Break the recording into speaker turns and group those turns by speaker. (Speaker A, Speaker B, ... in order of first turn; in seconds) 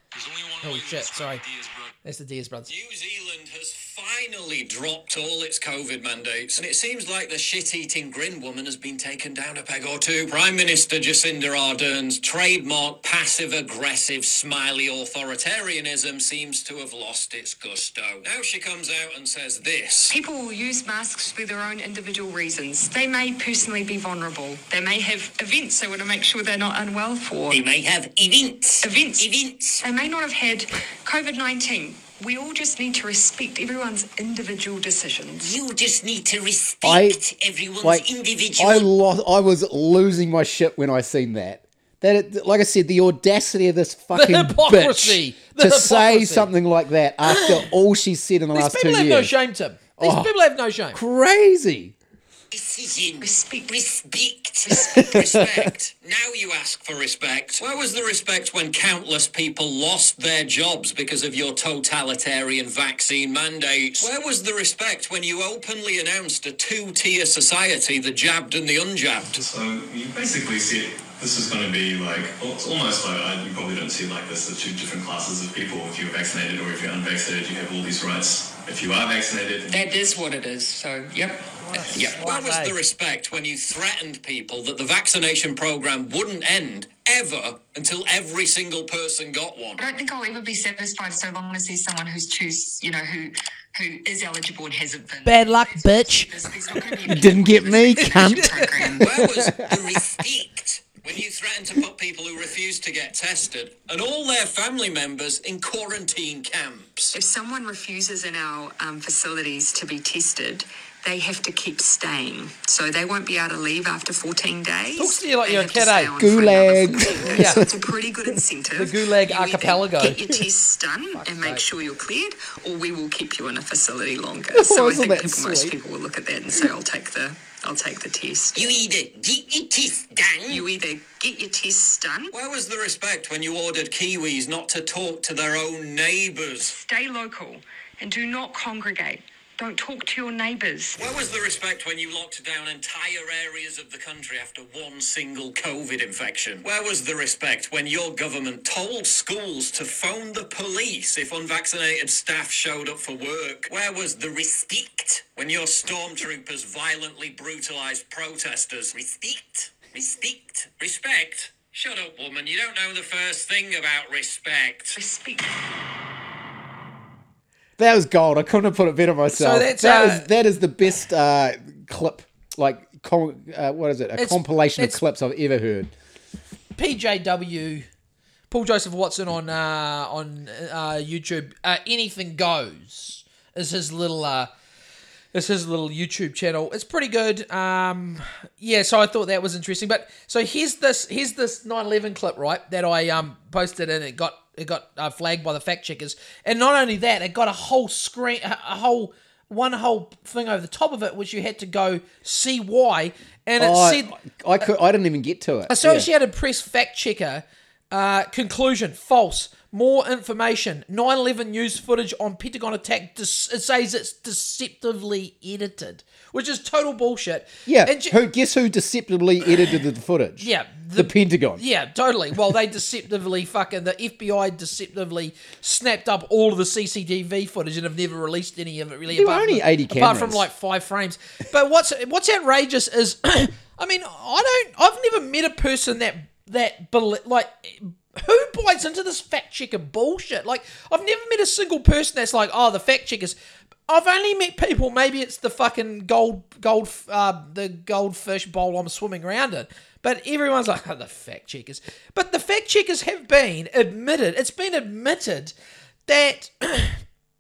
Speaker A: 0.1-1.2, 2.7-20.1, 27.5-29.8, 35.4-38.9, 52.5-69.4, 81.9-89.8, 99.0-107.1, 128.6-130.6, 132.3-136.8, 141.0-165.0
Speaker B: 0.6-1.4, 2.0-2.7, 44.1-46.5, 47.2-47.6, 48.5-51.0, 81.6-82.7, 95.2-96.3, 98.0-98.7, 115.0-116.1, 117.3-117.6, 118.7-120.2, 121.1-121.6, 169.3-170.3, 174.2-175.0, 176.8-177.8, 178.5-184.5, 185.3-204.1, 205.7-218.2, 220.4-243.3, 243.9-255.5, 256.1-257.0
Speaker C: 20.1-27.6, 28.8-35.6, 53.2-54.0, 54.6-55.1, 79.7-81.5, 89.8-99.1, 107.1-128.7, 130.5-132.3, 136.6-141.0, 164.9-165.5
Speaker D: 36.8-37.2, 37.8-49.3, 50.0-50.3, 50.9-51.9, 54.8-55.7, 97.1-100.0, 116.2-117.7, 124.5-125.7, 167.8-175.9, 203.6-206.1, 217.7-221.6, 229.1-230.4
Speaker E: 69.3-79.8